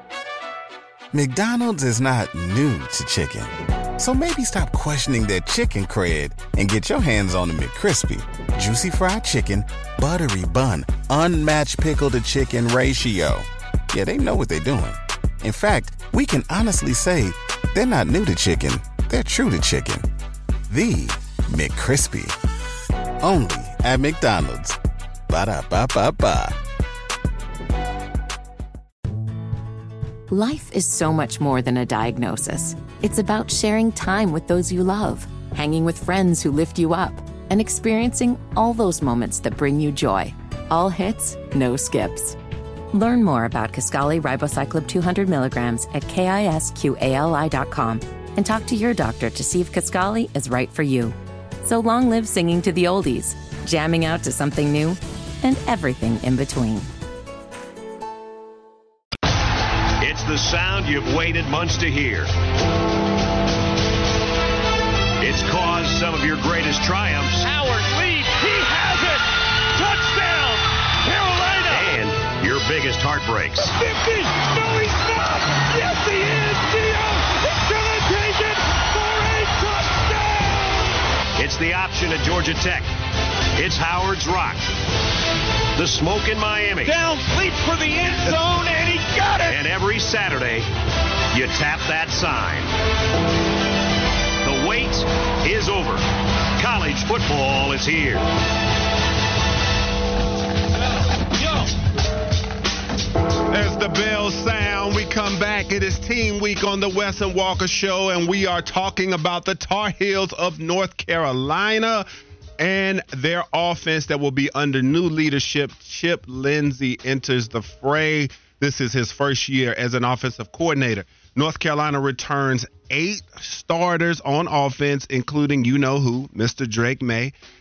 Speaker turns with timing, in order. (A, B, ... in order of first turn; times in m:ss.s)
0:01.1-0:20.1 A
0:20.7-0:22.3 A
0:23.2-0:24.8 A
0:25.3-0:26.6 A
0:30.3-0:42.4 B
0:42.9-0:56.9 B
1:00.0-1:02.3 C
1:05.2-1:07.5 C
1:07.4-1:11.9 D
1:11.6-1:13.7 C
1:13.6-1:20.9 D
1:21.4-1:22.9 C
1:23.6-1:24.6 C
1:25.8-1:26.9 C
1:26.8-1:29.6 D
1:29.5-1:30.7 C
1:31.3-1:32.7 C
1:34.4-1:36.0 C
1:36.6-1:38.2 C
1:43.5-1:52.0 E
1:52.6-2:07.3 E